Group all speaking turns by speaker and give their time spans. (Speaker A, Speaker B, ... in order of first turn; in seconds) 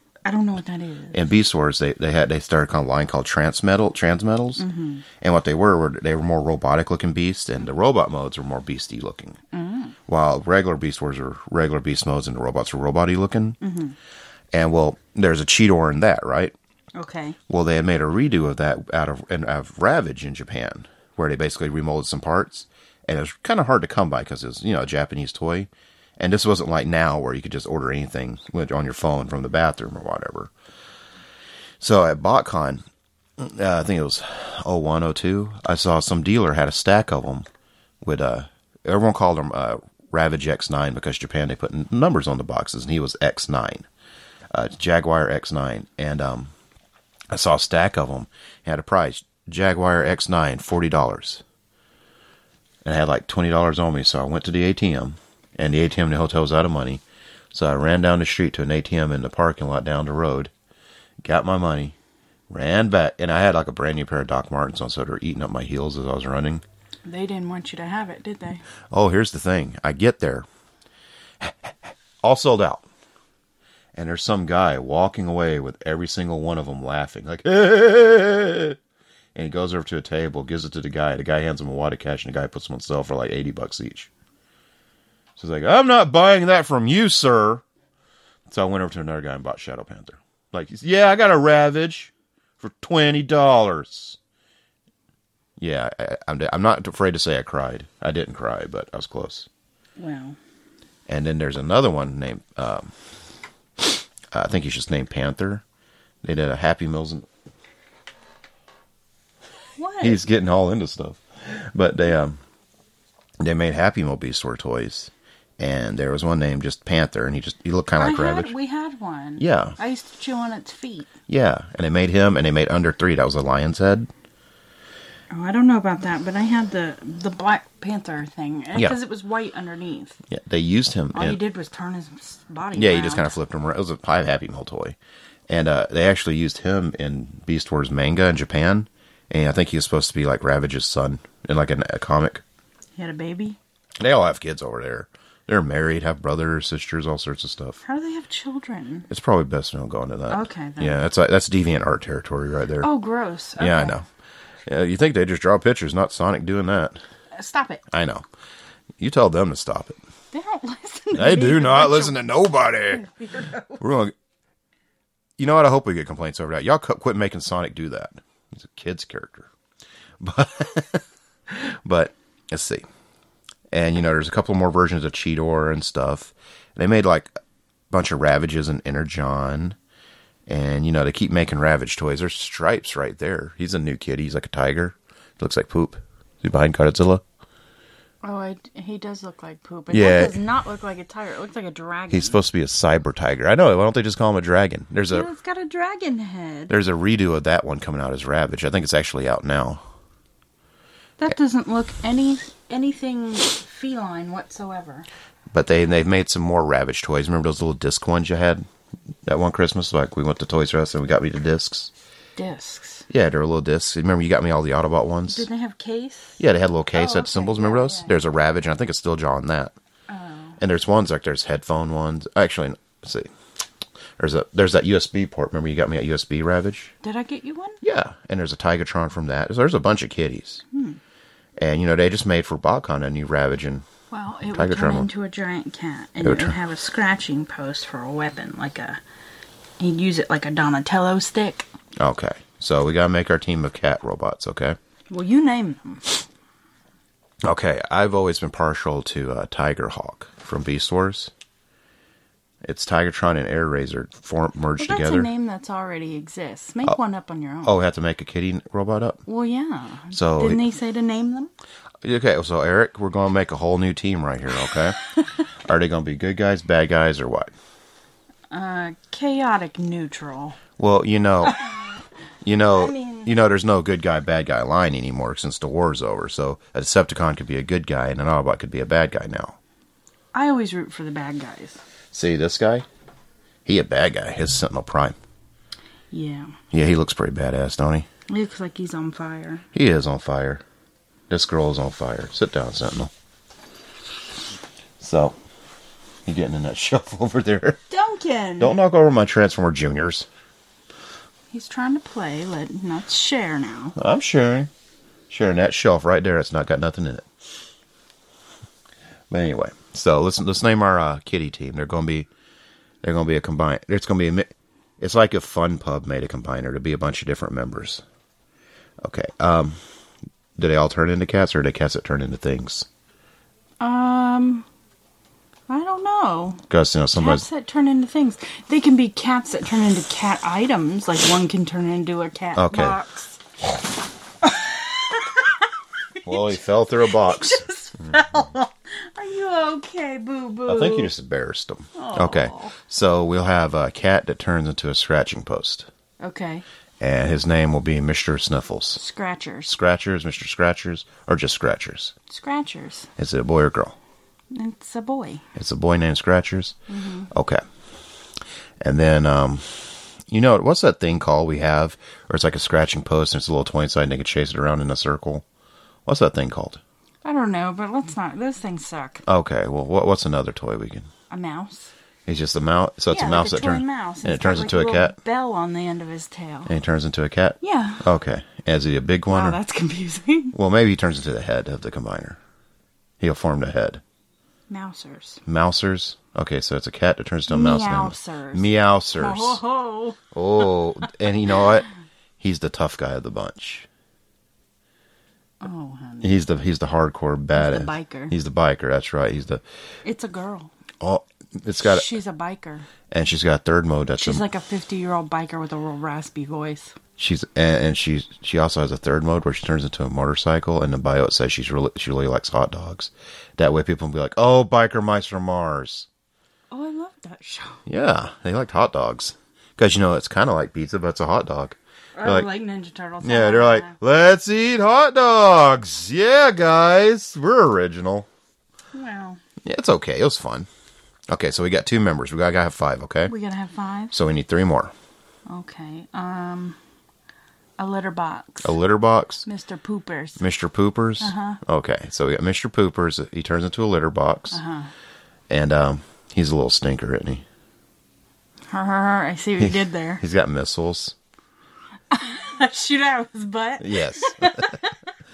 Speaker A: 0.2-1.3, 4.6-5.0, 9.5-10.0, 13.6-14.0, 16.9-17.4, 67.1-68.6, 100.0-100.4, 109.8-110.2, 118.0-121.1, 125.3-130.2, 131.1-133.3, 143.0-143.6, 147.8-149.1, 150.3-151.0, 152.8-154.0, 157.3-157.8, 160.3-162.2, 162.9-163.8, 188.2-192.4, 195.1-196.8, 201.2-205.1, 212.4-213.1, 215.3-216.4, 216.9-218.2, 220.1-220.6, 227.0-227.8, 230.7-231.0, 234.1-239.0, 239.8-241.7, 245.1-246.2, 254.8-257.8, 259.3-261.5, 268.5-270.6, 272.7-273.3, 280.3-281.8, 286.1-286.6, 288.3-289.6, 297.9-298.8, 301.5-304.0, 323.8-324.7, 325.7-326.6, 327.2-333.4, 334.4-335.6, 336.2-341.1, 341.9-342.8, 346.2-346.6, 349.0-349.8, 352.3-353.1, 354.5-355.4, 356.9-357.3, 367.2-369.2, 371.3-371.9, 373.1-376.7, 377.6-378.1, 379.3-380.6, 384.7-385.4, 387.5-391.1, 395.6-396.4, 397.6-398.4, 400.0-400.7, 401.8-402.9, 404.2-407.0, 416.7-417.8, 422.2-424.0, 428.9-429.4, 433.3-434.1, 435.5-436.8, 437.8-438.8, 439.4-440.4, 441.2-441.6, 444.5-444.9, 448.7-450.2, 452.1-454.9
Speaker B: 1.1-4.7, 5.2-9.4, 10.1-13.6, 14.5-16.6, 17.5-30.5, 31.8-32.8, 33.4-37.5, 38.0-43.9, 44.5-46.5, 47.3-51.4, 52.8-60.5, 61.2-62.0, 62.5-66.6, 68.9-70.5, 71.4-72.8, 73.9-78.8, 79.3-84.1, 85.4-87.6, 88.5-94.2, 95.6-99.5, 101.1-102.9, 103.8-105.6, 106.2-107.3, 110.0-112.4, 113.4-118.5, 119.4-119.8, 121.3-124.1, 130.3-131.4, 132.7-135.0, 135.5-142.4, 144.0-147.8, 149.1-152.9, 153.6-154.1, 154.7-157.0, 157.9-158.3, 159.0-160.0, 161.2-163.1, 163.8-164.1, 165.4-169.5, 170.2-172.9, 173.7-177.3, 177.9-179.8, 180.5-187.2, 189.9-190.4, 192.1-195.3, 196.7-199.8, 205.5-208.7, 209.2-211.9, 213.1-215.5, 216.4-219.7, 220.6-223.3, 224.2-226.9, 227.8-230.6, 231.6-233.9, 234.5-235.1, 236.2-236.6, 242.0-244.8, 247.4-251.3, 252.6-255.3, 257.6-259.2, 260.1-260.6, 262.0-265.0, 265.6-267.5, 270.8-271.6, 272.4-279.6, 282.1-282.9, 283.7-285.2, 286.7-288.1, 289.7-290.6, 291.3-293.1, 295.0-295.4, 296.3-297.8, 298.6-300.3, 304.0-304.7, 305.3-307.3, 309.3-312.3, 313.0-318.0, 319.0-319.8, 320.6-322.9, 326.7-327.5, 332.6-333.0, 336.2-338.2, 340.7-345.9, 347.0-349.0, 349.7-352.1, 353.2-354.0, 355.6-356.8, 357.3-357.6, 358.8-365.4, 366.1-366.8, 369.3-371.1, 372.3-375.2, 376.7-379.6, 380.5-382.4, 383.2-384.0, 385.5-389.6, 390.3-391.9, 392.4-393.9, 396.2-399.6, 401.0-402.1, 403.1-404.4, 407.2-416.1, 417.9-422.5, 423.2-428.3, 429.6-430.7, 431.3-433.3, 434.1-434.9, 438.6-439.4, 440.4-444.6, 445.5-447.4, 449.6-451.1, 453.8-454.8